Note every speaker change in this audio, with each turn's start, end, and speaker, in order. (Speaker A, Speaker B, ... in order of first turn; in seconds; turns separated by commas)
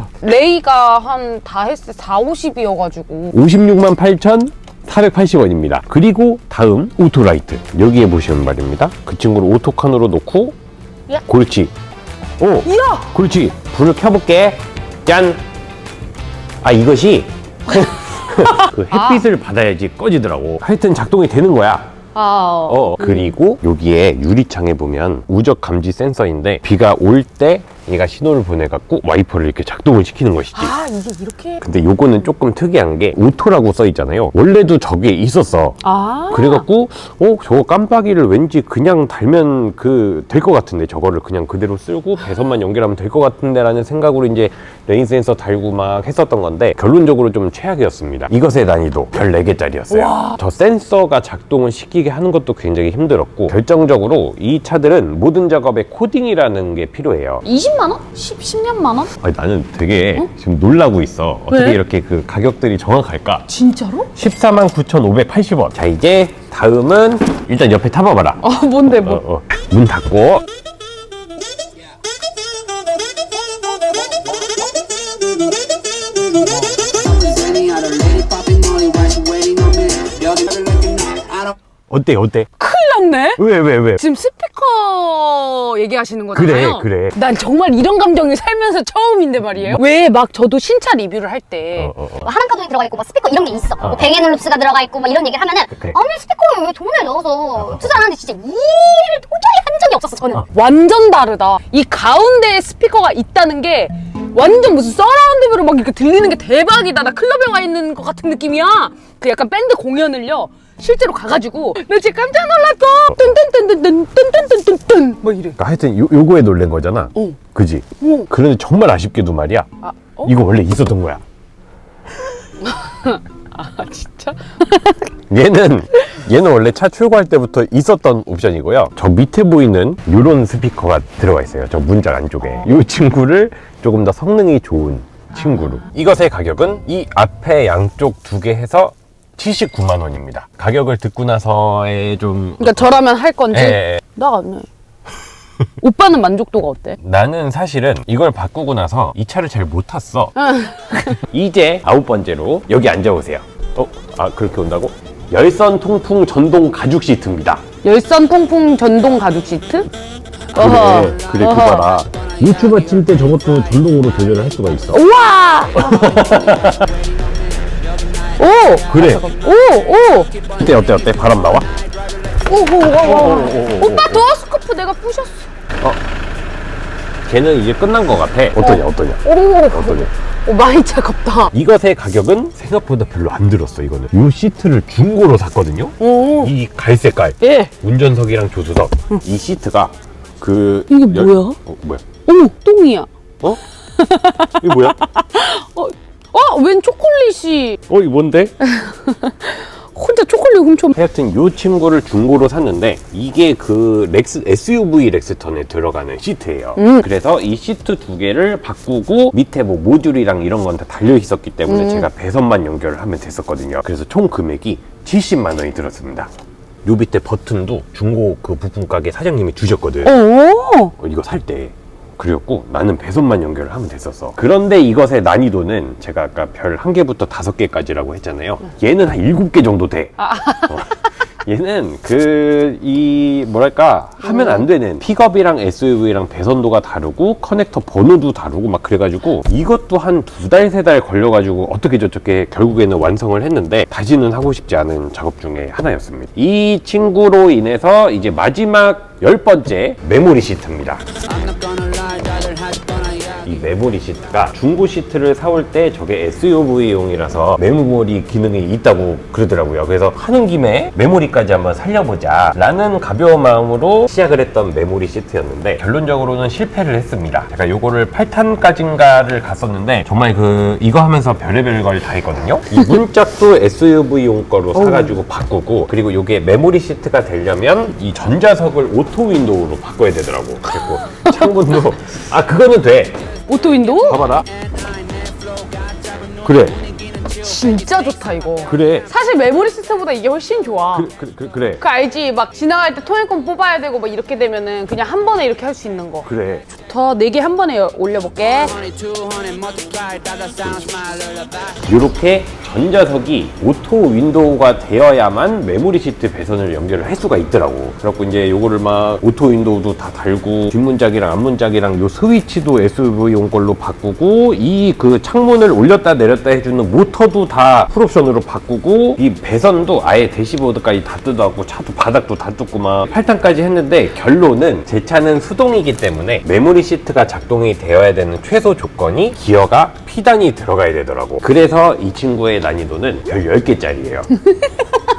Speaker A: 0.2-3.4, Speaker B: 3.3-10.5, Speaker B: 11.2-11.7, Speaker B: 12.4-15.4, Speaker A: 12.6-13.1, Speaker B: 16.6-21.9, Speaker A: 18.9-19.2, Speaker A: 22.1-23.3, Speaker B: 22.7-30.8, Speaker A: 30.5-31.6, Speaker B: 31.6-57.4, Speaker A: 35.8-36.7, Speaker A: 49.9-50.4, Speaker A: 57.4-59.1, Speaker B: 59.2-63.5, Speaker A: 61.5-61.8, Speaker A: 63.5-64.1, Speaker B: 64.1-70.4, Speaker A: 68.4-69.2, Speaker C: 77.0-81.5, Speaker B: 81.9-82.5, Speaker A: 82.6-91.9, Speaker B: 83.4-84.0, Speaker B: 86.3-87.2, Speaker B: 89.5-89.8, Speaker B: 91.8-92.3, Speaker D: 92.2-100.4, Speaker B: 93.8-94.1, Speaker A: 100.5-115.6, Speaker B: 115.6-119.7, Speaker A: 118.0-118.3, Speaker A: 119.8-120.3, Speaker B: 120.2-121.2, Speaker A: 122.6-125.1, Speaker B: 125.3-142.9, Speaker A: 142.6-144.7, Speaker B: 143.5-144.0, Speaker A: 145.8-147.0, Speaker B: 147.0-150.3, Speaker A: 150.3-151.2, Speaker B: 150.9-157.6, Speaker A: 157.8-159.9, Speaker A: 160.5-161.9, Speaker B: 160.5-165.1, Speaker A: 164.9-166.2, Speaker B: 165.7-166.9, Speaker C: 166.8-167.2, Speaker A: 168.4-170.3, Speaker B: 168.8-169.2, Speaker B: 170.5-171.7, Speaker A: 172.4-175.5, Speaker B: 172.8-174.3, Speaker B: 177.3-180.1, Speaker A: 178.6-181.5, Speaker B: 181.5-192.0, Speaker A: 186.0-186.5, Speaker A: 187.4-187.7, Speaker A: 190.9-191.6, Speaker A: 192.2-193.1, Speaker A: 193.8-197.8, Speaker B: 194.6-195.0, Speaker B: 197.9-198.5, Speaker A: 198.6-200.9, Speaker B: 200.9-216.3, Speaker A: 206.8-207.1, Speaker A: 211.7-212.1, Speaker B: 216.8-220.2, Speaker A: 220.0-220.9, Speaker B: 221.0-251.0, Speaker A: 230.2-231.0, Speaker A: 234.2-234.7, Speaker C: 251.3-253.4, Speaker B: 253.4-283.2, Speaker A: 274.7-275.2, Speaker A: 281.1-281.4, Speaker A: 283.5-284.2, Speaker B: 284.0-284.5, Speaker C: 284.9-286.3, Speaker B: 286.4-286.8, Speaker A: 287.4-291.1, Speaker B: 288.6-289.1, Speaker B: 290.9-291.8, Speaker A: 291.8-298.8, Speaker B: 296.2-296.7, Speaker C: 298.7-301.8, Speaker B: 300.6-301.1, Speaker B: 301.8-334.3